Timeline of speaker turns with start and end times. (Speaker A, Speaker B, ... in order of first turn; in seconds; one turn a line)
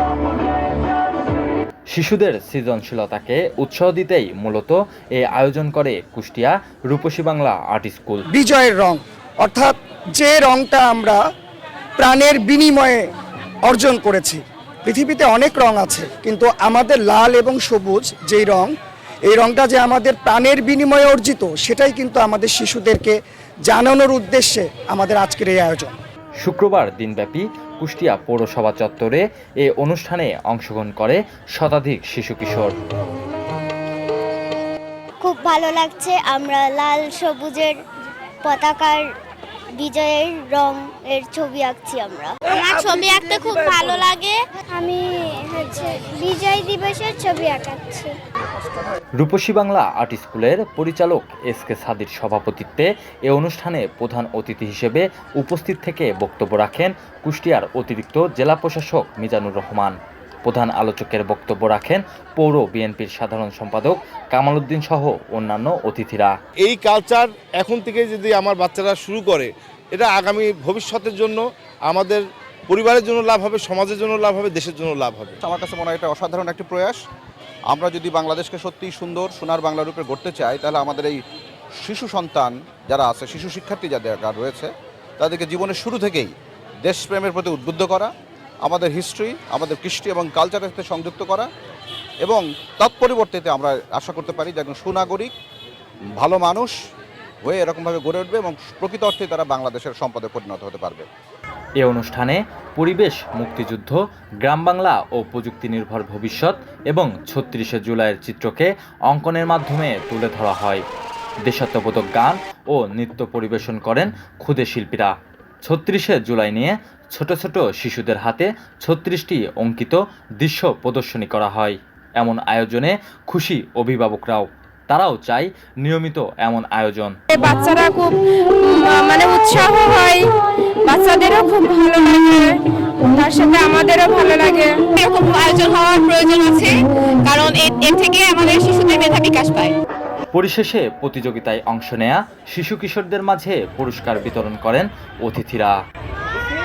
Speaker A: 1.9-8.2
Speaker B: 8.3-11.2
Speaker B: 12.0-13.0
Speaker B: 13.6-18.7
Speaker B: 19.3-23.1
Speaker B: 23.7-26.0
Speaker A: 26.4-32.7
Speaker C: 35.2-37.7
Speaker C: 38.4-39.0
Speaker C: 39.8-48.1
Speaker A: 49.2-66.3
Speaker D: 66.6-75.3
Speaker E: 75.4-77.0
Speaker E: 77.7-81.2
Speaker E: 81.8-84.7
Speaker E: 85.2-86.3
Speaker E: 86.8-88.1
Speaker E: 88.6-91.5
Speaker E: 92.2-95.3
Speaker E: 96.2-96.7
Speaker E: 97.4-101.1
Speaker A: 101.8-110.8
Speaker A: 111.4-115.1
Speaker A: 115.6-127.2
Speaker F: 127.3-128.2
Speaker F: 128.7-130.3
Speaker F: 130.8-132.6
Speaker F: 133.1-134.8
Speaker G: 134.9-139.8
Speaker A: 140.3-145.7